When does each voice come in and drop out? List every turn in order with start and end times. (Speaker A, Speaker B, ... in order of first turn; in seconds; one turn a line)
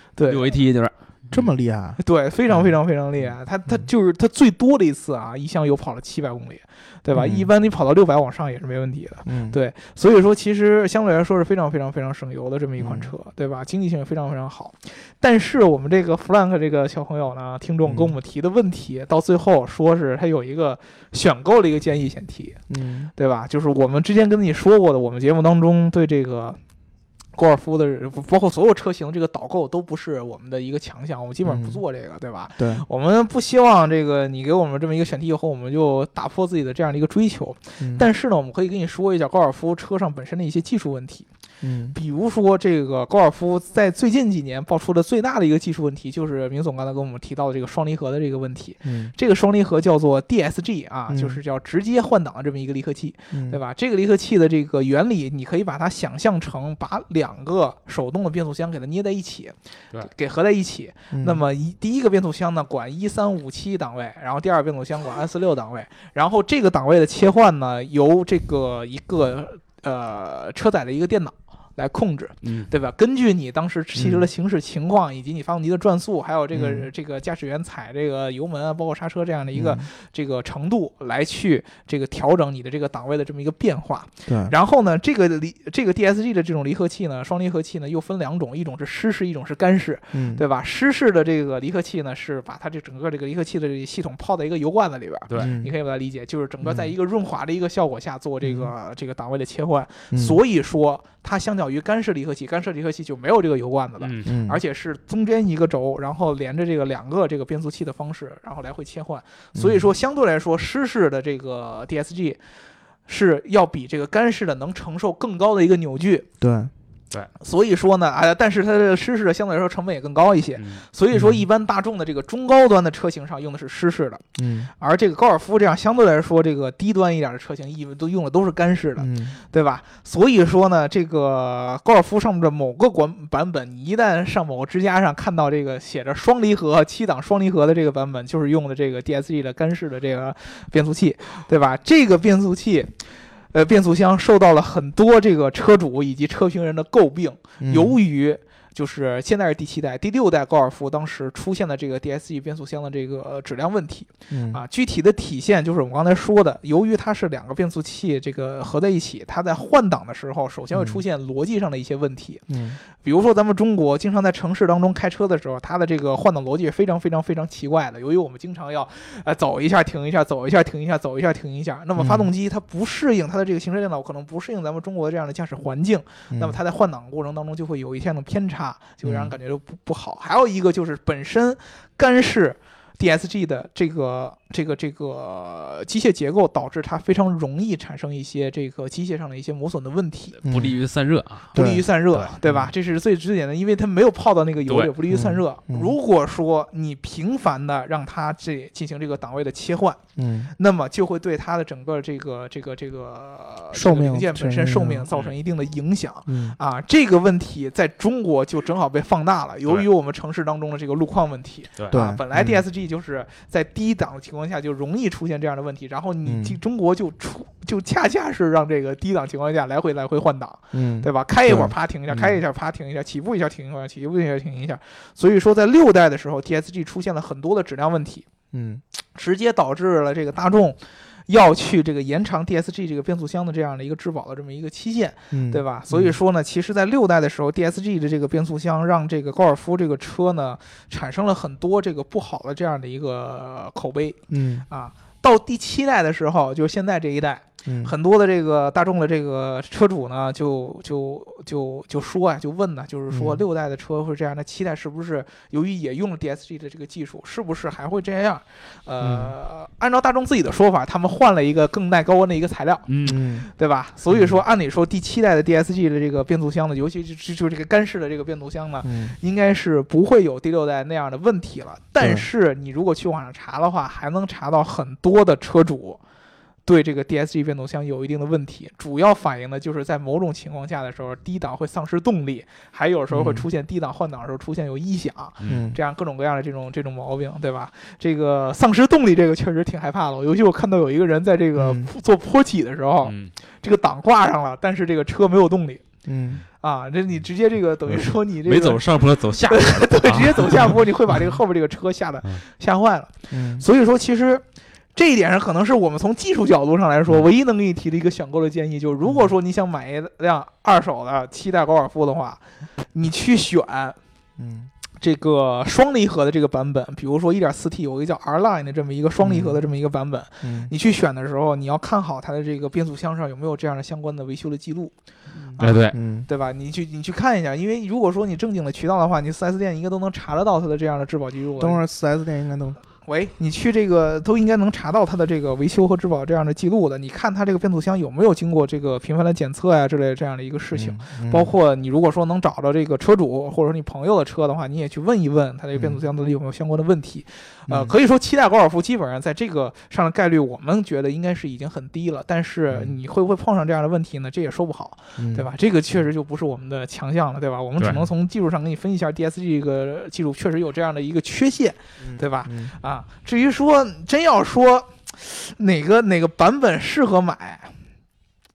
Speaker A: 0.2-0.5
Speaker B: 0.2-1.5
Speaker C: 1.3-2.0
Speaker A: 2.0-22.6
Speaker C: 7.1-7.5
Speaker C: 9.2-9.6
Speaker C: 12.8-13.1
Speaker C: 17.9-18.1
Speaker C: 22.7-23.1
Speaker A: 23.1-26.6
Speaker A: 27.4-41.3
Speaker C: 31.4-31.8
Speaker C: 32.6-32.8
Speaker C: 37.8-38.0
Speaker C: 41.6-42.0
Speaker A: 41.9-112.4
Speaker C: 48.8-49.1
Speaker C: 51.1-51.4
Speaker C: 53.3-53.6
Speaker C: 61.1-61.4
Speaker B: 72.4-72.7
Speaker C: 74.0-74.3
Speaker C: 76.5-76.9
Speaker C: 79.5-79.8
Speaker C: 84.3-84.5
Speaker C: 90.1-90.4
Speaker C: 95.4-95.7
Speaker C: 96.6-96.9
Speaker C: 98.4-98.7
Speaker C: 100.1-100.4
Speaker B: 104.0-104.3
Speaker C: 104.2-104.6
Speaker C: 109.5-109.8
Speaker A: 113.1-116.3
Speaker C: 116.4-116.7
Speaker A: 117.4-124.2
Speaker B: 120.6-120.8
Speaker C: 121.1-121.4
Speaker C: 124.4-124.7
Speaker A: 124.8-143.0
Speaker C: 129.0-129.4
Speaker A: 143.5-190.4
Speaker C: 147.6-148.0
Speaker C: 154.3-154.6
Speaker C: 160.7-161.0
Speaker C: 162.5-162.8
Speaker C: 172.0-172.3
Speaker C: 176.3-176.6
Speaker C: 179.0-179.3
Speaker B: 190.4-191.5
Speaker C: 190.4-190.8
Speaker A: 191.5-200.0
Speaker C: 191.5-191.8
Speaker B: 194.7-194.9
Speaker C: 195.1-195.9
Speaker C: 200.2-200.5
Speaker A: 200.6-228.2
Speaker C: 203.7-205.1
Speaker C: 206.3-206.6
Speaker C: 211.9-212.6
Speaker C: 216.2-216.6
Speaker C: 220.7-222.4
Speaker C: 228.5-228.8
Speaker A: 229.1-244.2
Speaker C: 235.3-236.2
Speaker C: 244.3-244.6
Speaker A: 244.7-262.9
Speaker C: 247.7-247.9
Speaker C: 253.1-253.4
Speaker C: 259.0-259.3
Speaker B: 262.9-263.3
Speaker C: 263.0-263.5
Speaker A: 263.4-276.0
Speaker C: 264.1-264.4
Speaker C: 268.8-269.1
Speaker C: 272.0-272.2
Speaker A: 276.6-295.8
Speaker C: 283.1-283.4
Speaker B: 285.4-285.7
Speaker C: 285.4-285.8
Speaker C: 291.6-291.9
Speaker B: 293.0-293.3
Speaker C: 296.1-296.4
Speaker A: 296.6-304.4
Speaker B: 297.9-300.8
Speaker C: 303.3-303.6
Speaker A: 304.9-314.0
Speaker C: 314.4-314.7
Speaker A: 315.0-324.9
Speaker C: 319.2-319.6
Speaker C: 320.4-320.7
Speaker A: 325.6-331.8
Speaker B: 325.6-325.9
Speaker C: 325.9-326.3
Speaker C: 331.6-332.8
Speaker A: 333.0-367.7
Speaker C: 340.7-341.5
Speaker C: 347.7-347.9
Speaker C: 355.2-355.5
Speaker B: 357.8-358.0
Speaker C: 362.0-362.7